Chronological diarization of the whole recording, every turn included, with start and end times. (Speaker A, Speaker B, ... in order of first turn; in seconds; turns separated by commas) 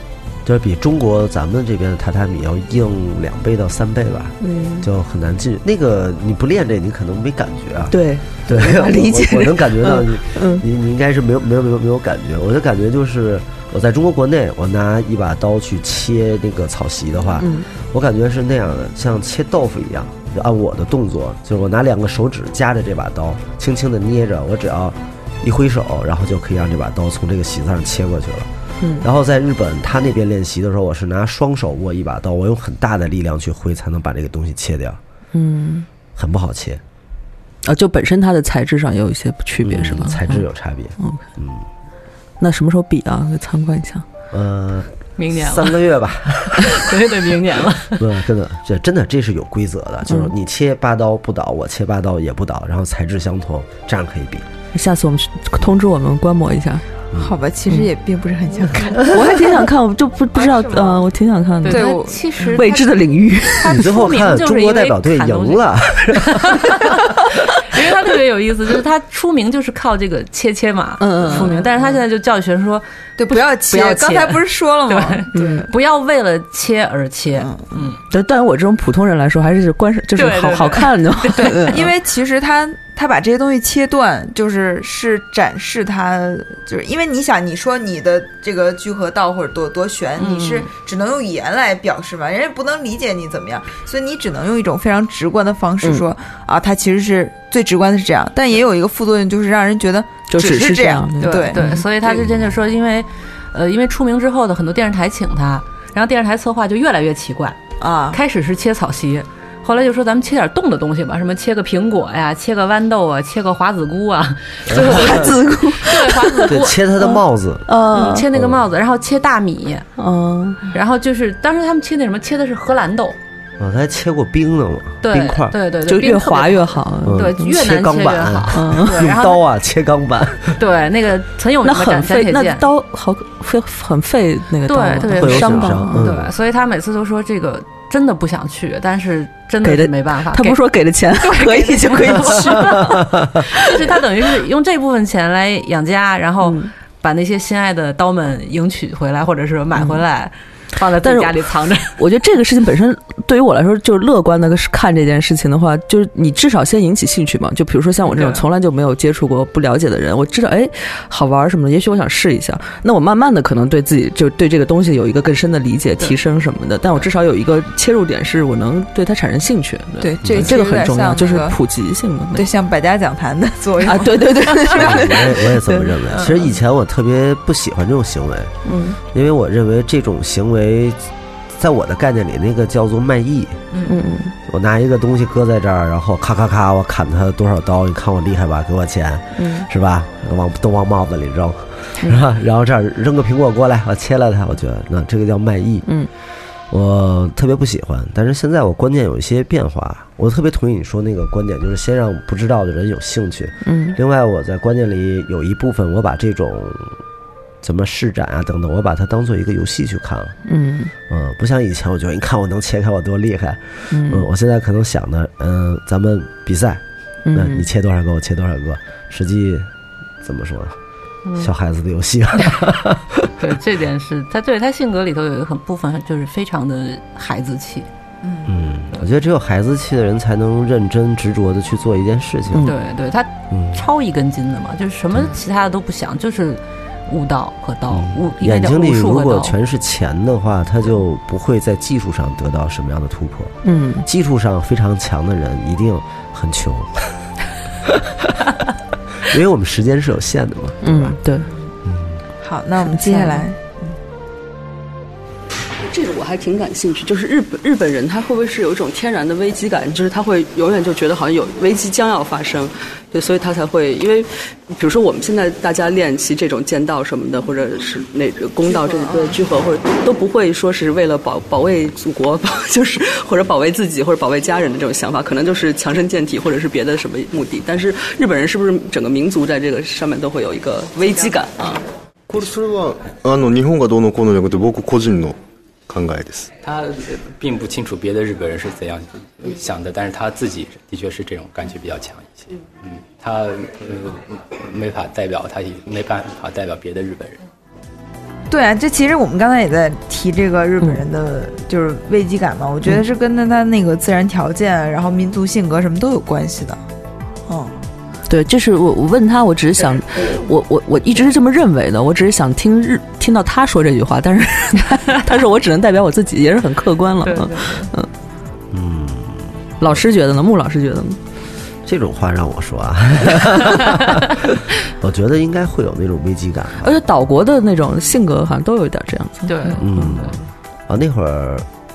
Speaker A: 0.5-28.5, Speaker B: 4.4-4.9, Speaker B: 7.9-10.6, Speaker B: 17.4-17.7, Speaker A: 29.0-35.0, Speaker B: 35.3-35.9, Speaker A: 36.1-36.8, Speaker B: 37.6-40.4, Speaker A: 39.6-41.7, Speaker B: 42.4-44.0, Speaker A: 44.3-46.8, Speaker C: 45.2-45.7, Speaker C: 46.7-48.0, Speaker A: 48.0-54.5, Speaker B: 54.7-56.9, Speaker D: 57.2-59.5, Speaker A: 58.9-59.2, Speaker B: 59.0-62.0, Speaker D: 60.4-61.0, Speaker C: 61.6-63.0, Speaker D: 61.7-62.6, Speaker B: 62.5-63.8, Speaker C: 63.6-78.0, Speaker A: 63.7-66.8, Speaker B: 71.0-71.6, Speaker D: 73.2-75.7, Speaker B: 75.3-75.7, Speaker D: 77.4-77.8, Speaker B: 78.1-81.9, Speaker C: 80.2-81.8, Speaker D: 81.7-102.2, Speaker C: 90.2-90.7, Speaker B: 100.3-101.8, Speaker C: 101.2-107.6, Speaker D: 107.8-108.2, Speaker C: 108.1-116.8, Speaker A: 114.7-115.3, Speaker B: 114.7-118.3, Speaker A: 116.5-117.7, Speaker C: 117.9-119.9, Speaker A: 118.3-118.6, Speaker B: 120.0-120.6, Speaker C: 120.7-123.2, Speaker A: 123.6-125.6, Speaker C: 125.0-129.4, Speaker B: 125.8-127.3, Speaker A: 127.0-130.6, Speaker B: 128.5-129.1, Speaker C: 130.6-132.7, Speaker B: 131.6-136.1, Speaker C: 134.7-140.6, Speaker A: 135.1-136.3, Speaker B: 139.6-143.1, Speaker C: 141.2-152.0, Speaker B: 146.4-146.7, Speaker B: 149.8-150.0, Speaker B: 151.0-151.3, Speaker B: 152.0-172.5, Speaker C: 158.1-158.4, Speaker D: 170.0-171.6, Speaker A: 170.2-170.6, Speaker D: 172.3-175.4, Speaker B: 173.8-176.0, Speaker A: 174.8-178.5, Speaker B: 178.7-179.0, Speaker A: 179.1-181.0, Speaker A: 181.5-183.7, Speaker D: 183.7-184.0, Speaker B: 183.9-184.3, Speaker A: 184.4-195.9, Speaker B: 189.4-189.7, Speaker A: 196.7-207.0, Speaker B: 203.6-204.0, Speaker A: 207.6-210.4, Speaker B: 210.5-210.9, Speaker A: 211.1-219.7, Speaker B: 213.9-214.3, Speaker B: 217.2-217.7, Speaker A: 220.2-220.8, Speaker C: 221.2-221.5, Speaker A: 221.4-223.3, Speaker C: 223.4-227.9, Speaker D: 228.2-228.5, Speaker A: 228.5-232.7, Speaker B: 232.5-232.8, Speaker C: 232.7-239.6, Speaker A: 233.5-233.8, Speaker A: 237.9-247.1, Speaker B: 243.6-244.1, Speaker A: 247.8-248.4, Speaker A: 249.2-251.2, Speaker B: 250.8-251.5, Speaker A: 251.9-252.2, Speaker D: 252.4-254.0, Speaker B: 252.8-253.5, Speaker E: 255.8-281.8, Speaker D: 268.7-269.4, Speaker F: 282.3-285.4, Speaker F: 285.9-286.5, Speaker G: 286.6-297.4, Speaker D: 298.5-306.8, Speaker D: 307.5-307.8, Speaker B: 308.3-318.1, Speaker C: 317.2-317.9, Speaker A: 318.7-320.0, Speaker B: 319.8-321.2, Speaker A: 321.9-327.0, Speaker B: 326.8-330.2, Speaker C: 329.5-330.4, Speaker A: 329.8-331.7